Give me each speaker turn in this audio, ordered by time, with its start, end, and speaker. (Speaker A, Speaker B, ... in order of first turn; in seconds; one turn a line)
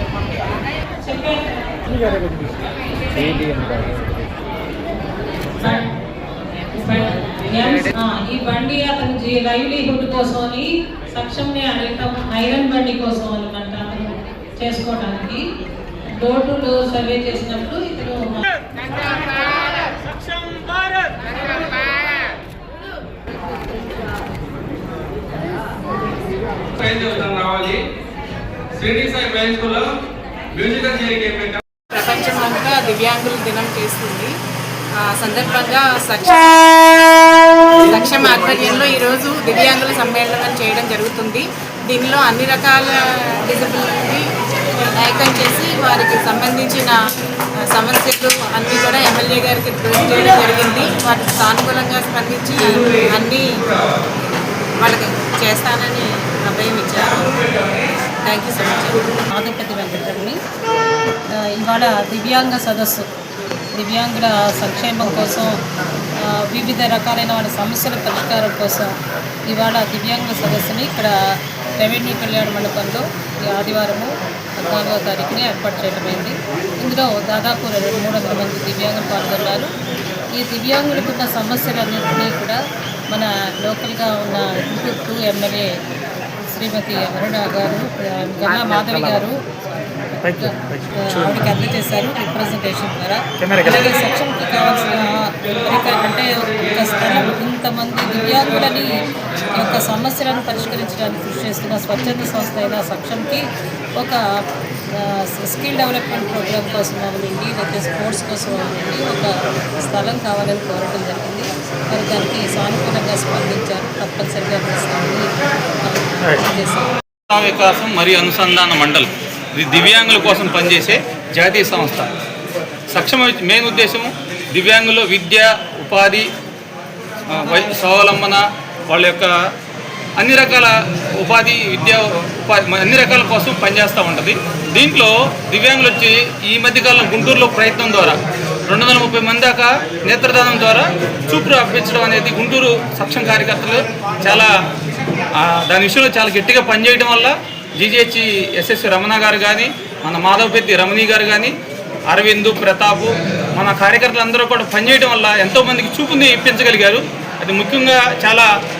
Speaker A: 1.0-1.9
Speaker A: 3.0-3.6
Speaker A: 5.6-5.9
Speaker A: 6.7-15.4
Speaker A: 16.2-18.5
Speaker B: 26.8-27.8
Speaker B: 28.7-29.9
Speaker B: 30.5-31.6
Speaker C: 31.9-34.3
Speaker C: 35.0-44.2
Speaker C: 44.8-47.0
Speaker C: 47.6-53.5
Speaker C: 54.8-57.4
Speaker C: 58.2-59.2
Speaker A: 59.3-60.4
Speaker A: 61.4-63.1
Speaker A: 63.7-65.6
Speaker A: 66.2-68.9
Speaker A: 69.5-71.1
Speaker A: 71.8-79.7
Speaker A: 80.3-82.6
Speaker A: 83.1-85.7
Speaker A: 86.5-89.3
Speaker D: 90.2-91.5
Speaker A: 90.4-103.4
Speaker D: 93.4-93.9
Speaker A: 105.0-115.3
Speaker A: 115.8-116.9
Speaker D: 117.3-122.1
Speaker D: 122.9-126.3
Speaker D: 127.3-129.3
Speaker D: 130.2-144.5
Speaker D: 145.4-151.5
Speaker D: 152.1-158.5